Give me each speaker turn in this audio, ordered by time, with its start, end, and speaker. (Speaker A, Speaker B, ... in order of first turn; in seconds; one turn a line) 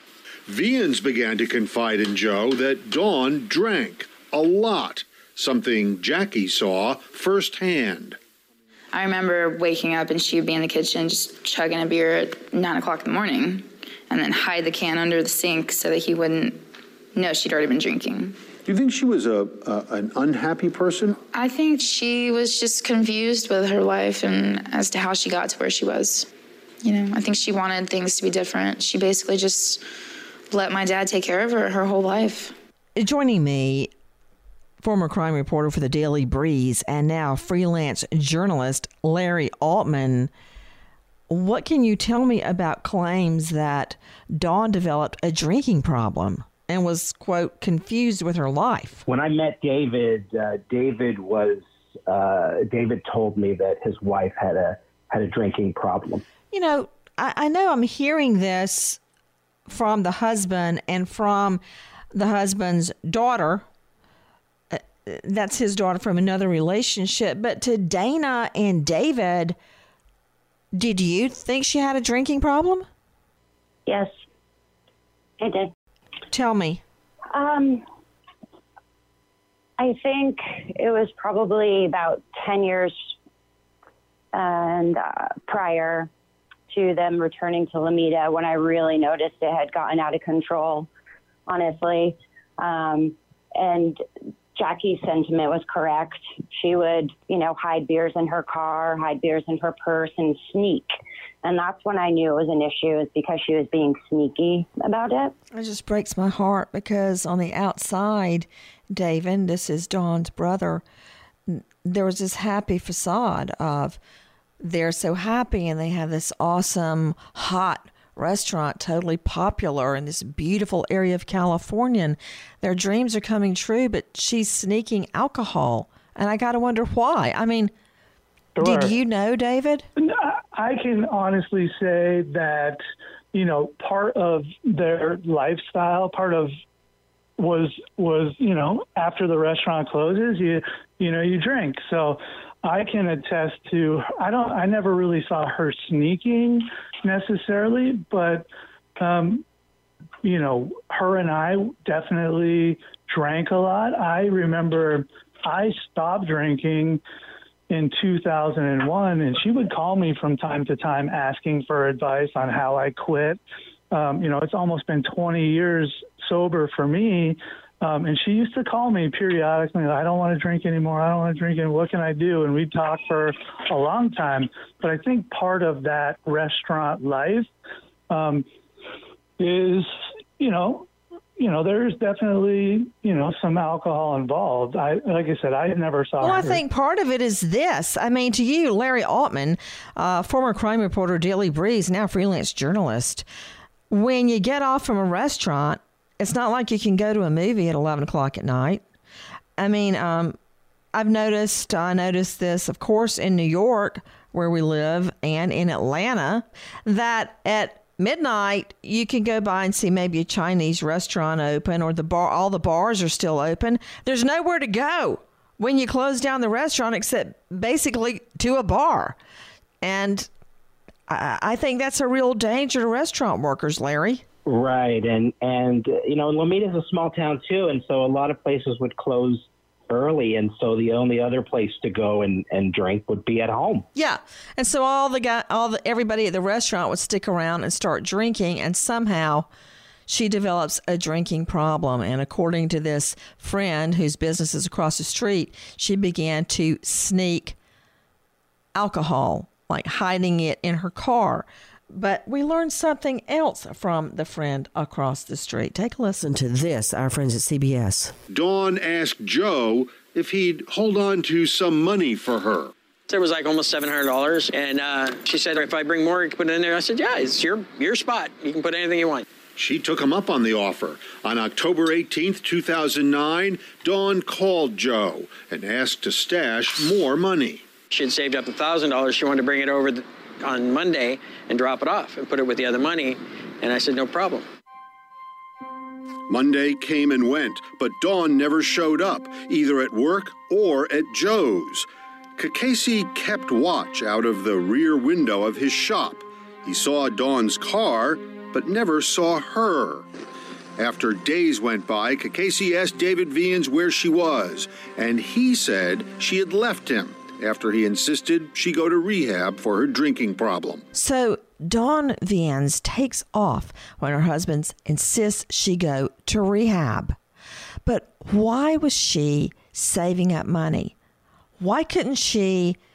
Speaker A: 0.5-8.2
Speaker B: 8.9-18.4
Speaker A: 18.7-21.2
Speaker B: 21.3-26.3
Speaker B: 26.8-29.8
Speaker B: 30.5-32.5
Speaker C: 33.0-33.9
Speaker C: 34.8-40.3
Speaker C: 41.3-49.0
Speaker D: 49.1-56.2
Speaker C: 56.5-59.0
Speaker C: 59.7-61.6
Speaker C: 62.1-63.6
Speaker C: 64.7-69.6
Speaker C: 70.7-72.9
Speaker E: 73.9-74.1
Speaker E: 75.4-75.7
Speaker C: 76.3-76.8
Speaker E: 77.3-77.8
Speaker E: 79.8-83.0
Speaker E: 84.3-86.1
Speaker E: 86.7-90.9
Speaker E: 91.5-94.0
Speaker E: 94.5-100.9
Speaker E: 101.4-105.3
Speaker C: 105.5-110.8
Speaker C: 111.5-114.0
Speaker C: 114.6-127.7
Speaker F: 128.6-128.9
Speaker C: 128.6-129.9
Speaker F: 130.0-132.8
Speaker F: 133.3-136.5
Speaker F: 137.4-149.4
Speaker F: 150.2-157.0
Speaker F: 157.7-163.4
Speaker F: 163.9-177.5
Speaker F: 178.1-178.5
Speaker F: 179.4-186.6
Speaker C: 186.2-193.2
Speaker C: 193.9-198.8
Speaker C: 199.6-200.4
Speaker C: 200.9-219.2
Speaker C: 219.8-220.3
Speaker C: 221.1-224.2
Speaker D: 224.5-233.9
Speaker C: 233.9-239.5
Speaker C: 240.1-247.6
Speaker C: 248.7-258.1
Speaker A: 258.3-262.7
Speaker G: 263.1-269.3
Speaker A: 269.6-277.6
Speaker G: 277.9-284.4
Speaker A: 286.3-300.1
Speaker A: 300.8-310.9
Speaker C: 310.9-317.2
Speaker C: 317.9-320.9
Speaker C: 321.6-322.8